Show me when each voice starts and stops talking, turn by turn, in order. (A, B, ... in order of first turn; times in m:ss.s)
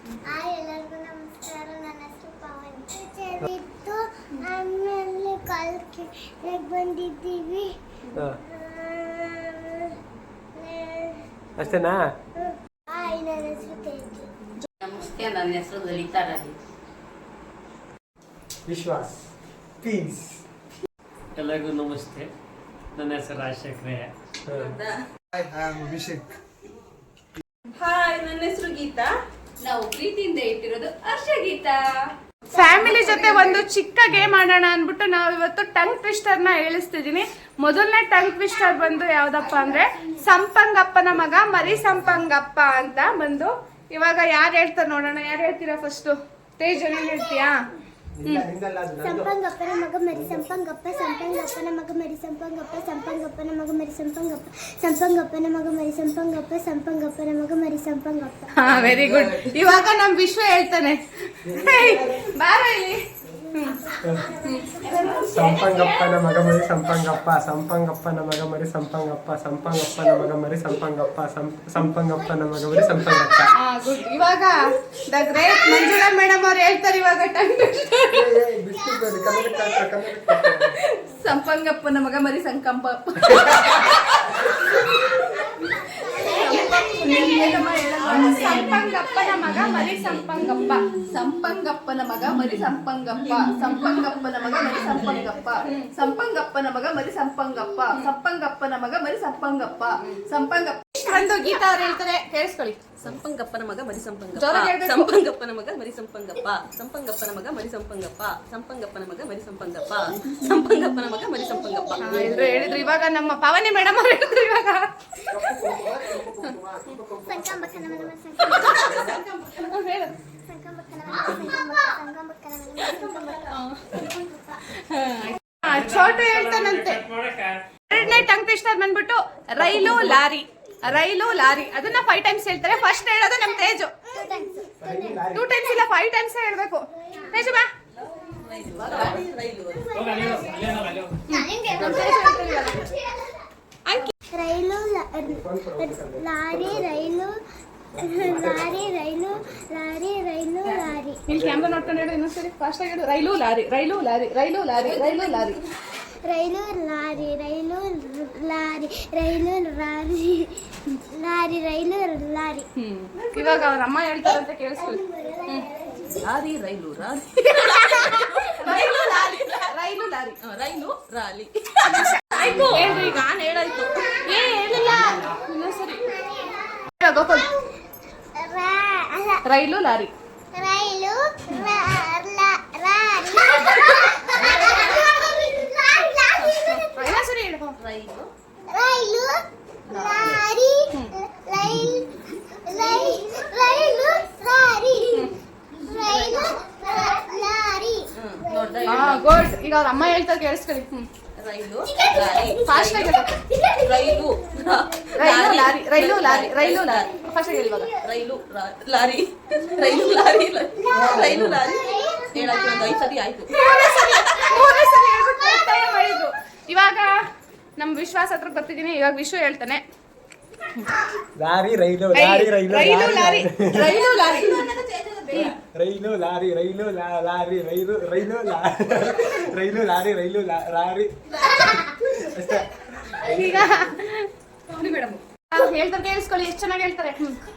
0:00.3-0:07.7 A
0:08.3-0:09.8 A
0:10.6-0:11.7 A
0:11.6-0:12.0 B
0:12.4-0:14.3 A
0:14.8-0:16.5 C
0:18.7-0:19.1 B
0:19.8-0:20.4 B
0:21.4-0:22.3 D
0:23.0-0:24.1 D
0:24.5-0:25.0 E
0:25.4-0:26.2 B
0:27.8-0:29.1 E
0:29.6-0:31.8 C
0:32.5-0:47.6 F
0:32.9-0:33.2 C
0:33.1-0:33.5 A
0:41.7-0:42.0 B
0:48.2-0:49.4 B
0:49.0-0:58.5 A
0:50.1-0:50.5 B
0:58.5-1:03.0 F
0:58.9-0:59.4 E
1:01.4-1:02.2 B
1:03.5-1:05.4 A
1:03.5-1:03.8 F
1:04.4-1:05.0 F
1:04.9-1:06.1 C
1:05.3-1:13.5 B
1:13.6-1:18.3 F
1:18.1-1:20.7 B
1:23.2-1:23.7 B
1:26.2-1:30.9 F
1:28.0-1:28.6 E
1:28.2-1:28.8 C
1:32.5-1:35.4 E
1:33.7-1:34.0 C
1:34.7-1:35.6 C
1:35.6-1:35.9 F
1:36.2-1:37.5 C
1:38.6-1:39.4 C
1:41.0-1:42.8 F
1:43.0-1:52.2 E
1:44.4-1:45.1 F
1:51.5-1:52.3 A
1:52.0-1:54.9 F
1:52.2-1:52.6 B
1:55.3-1:58.1 B
1:57.2-1:59.1 A
1:58.4-1:58.7 F
1:58.5-1:59.7 E
1:59.5-2:00.1 F
2:00.5-2:04.0 A
2:03.5-2:03.8 F
2:04.7-2:07.0 F
2:05.6-2:07.6 D
2:07.9-2:14.0 F
2:07.9-2:08.2 B
2:14.1-2:15.2 A
2:14.8-2:15.5 B
2:15.3-2:17.7 F
2:18.1-2:19.9 E
2:18.8-2:19.2 C
2:19.9-2:21.2 D
2:21.3-2:22.9 F
2:21.7-2:22.1 B
2:21.7-2:22.1 A
2:23.8-2:24.1 F
2:24.3-2:27.4 A
2:25.2-2:27.1 B
2:27.9-2:29.6 B
2:28.0-2:31.2 A
2:31.2-2:35.6 F
2:31.3-2:32.0 B
2:36.2-2:40.5 A
2:41.1-2:42.7 A
2:42.8-2:45.6 F
2:44.8-2:46.2 A
2:46.2-2:49.7 E
2:48.6-2:50.4 F
2:50.4-2:54.2 E
2:51.9-2:53.2 F
2:54.2-2:56.1 F
2:54.8-2:55.3 E
2:56.0-2:57.6 A
2:57.0-2:57.4 F
2:58.4-2:59.4 A
2:59.4-3:00.1 F
3:00.5-3:06.9 A
3:04.3-3:05.0 E
3:06.3-3:06.8 E
3:07.0-3:07.8 F
3:07.8-3:08.3 E
3:08.7-3:12.1 A
3:12.6-3:15.1 A
3:15.9-3:18.0 A
3:16.0-3:16.5 E
3:18.2-3:19.3 E
3:18.6-3:19.1 A
3:18.9-3:21.1 F
3:21.4-3:23.1 E
3:22.5-3:23.3 F
3:23.8-3:27.1 E
3:25.2-3:27.9 F
3:28.0-3:33.5 E
3:30.9-3:31.6 B
3:31.7-3:32.9 A
3:33.5-3:37.1 F
3:37.8-3:39.8 F
3:41.4-3:43.9 B
3:42.1-3:44.7 F
3:43.8-3:45.6 E
3:45.7-3:53.8 B
3:53.2-3:57.4 F